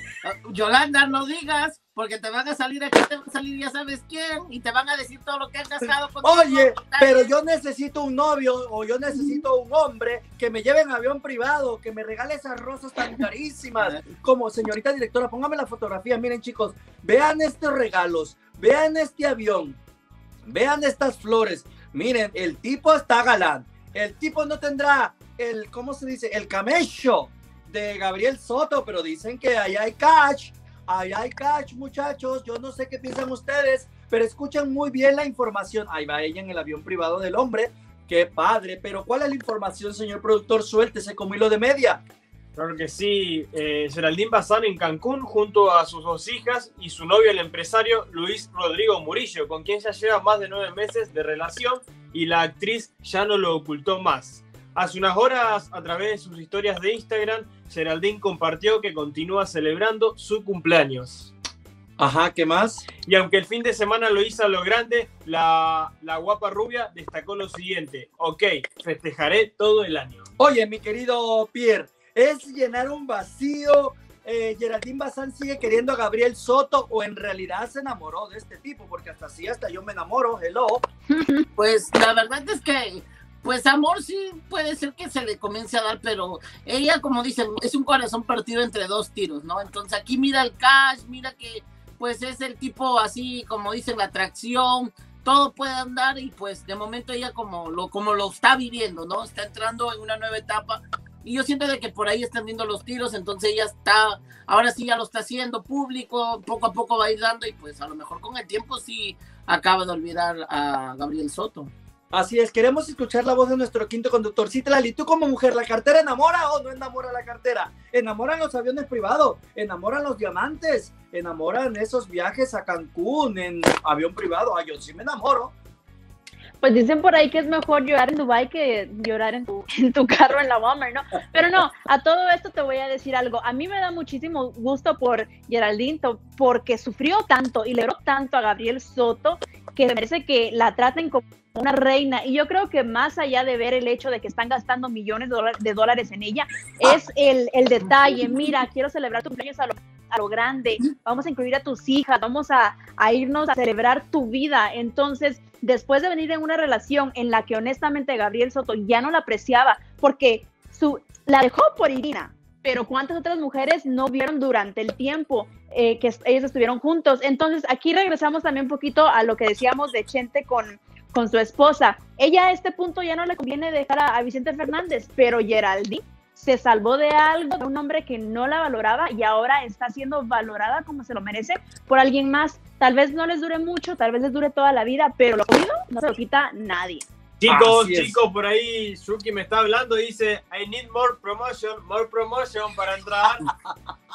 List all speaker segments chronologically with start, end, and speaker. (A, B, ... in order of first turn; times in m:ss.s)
0:00.2-0:07.3 A
0:06.2-0:19.8 B
0:13.8-0:14.0 A
0:20.5-0:42.0 B
0:42.6-1:01.3 C
1:02.0-1:02.8 B
1:03.1-1:10.2 C
1:10.4-1:20.8 B
1:21.1-1:21.5 D
1:21.6-1:51.7 A
1:52.1-2:05.5 B
2:06.6-3:07.0 D
3:07.4-3:13.5 C
3:07.5-3:08.2 B